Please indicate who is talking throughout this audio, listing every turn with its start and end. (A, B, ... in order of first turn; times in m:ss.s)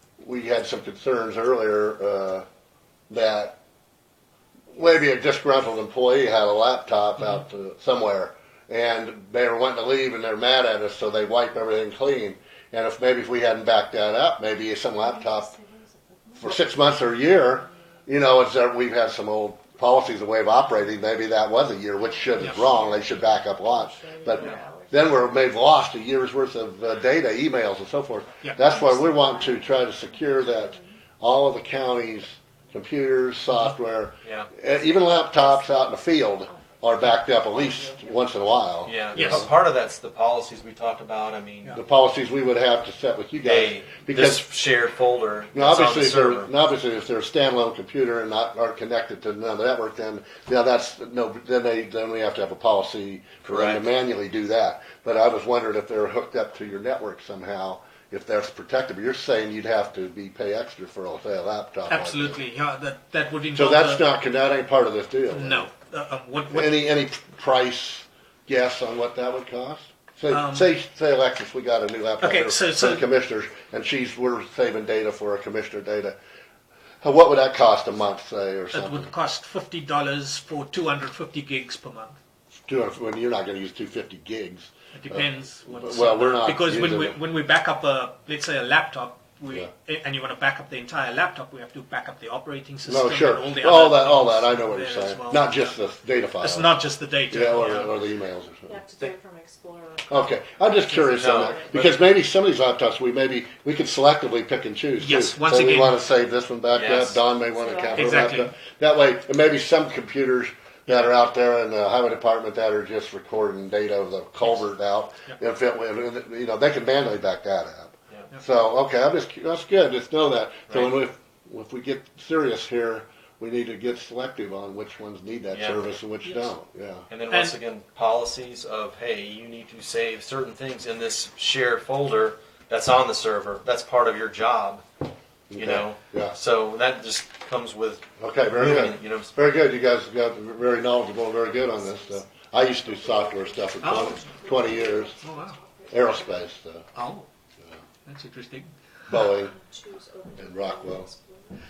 0:00.2-0:02.5 A
0:03.1-0:03.6 A
0:04.7-0:15.5 A
0:14.9-0:16.6 B
0:16.4-0:39.5 A
0:22.0-0:25.7 B
0:22.4-0:22.6 C
0:24.4-0:24.6 D
0:28.6-0:31.0 B
0:34.2-0:34.5 D
0:34.9-0:35.8 B
0:36.4-0:38.6 B
0:38.8-0:41.8 D
0:39.1-0:39.5 C
0:41.7-0:44.5 A
0:43.4-0:46.5 D
0:45.5-1:02.4 A
0:53.5-0:53.9 D
1:01.9-1:04.1 C
1:03.5-1:05.7 A
1:05.3-1:06.8 C
1:06.5-1:16.2 A
1:10.3-1:10.7 C
1:12.2-1:13.1 C
1:17.0-1:19.1 A
1:18.7-1:22.2 C
1:22.7-1:27.2 A
1:24.9-1:35.7 C
1:32.9-1:36.8 A
1:36.4-1:38.0 C
1:37.3-1:38.7 A
1:38.6-1:41.9 B
1:40.1-2:07.1 A
1:41.1-1:41.8 D
1:45.0-1:46.0 C
1:46.7-1:47.2 D
1:47.6-1:48.2 B
1:47.9-1:48.5 C
1:50.9-1:51.1 C
2:00.7-2:01.0 D
2:05.5-2:05.9 D
2:06.2-2:06.5 C
2:07.1-2:14.8 D
2:07.3-2:07.6 C
2:15.5-2:16.4 A
2:15.5-2:19.4 D
2:18.2-2:25.2 A
2:21.3-2:26.5 B
2:23.8-2:24.3 C
2:25.2-2:25.6 C
2:25.9-2:26.8 A
2:26.9-2:27.3 C
2:28.1-2:29.2 C
2:29.1-2:29.5 A
2:29.3-2:31.6 B
2:30.4-2:31.1 A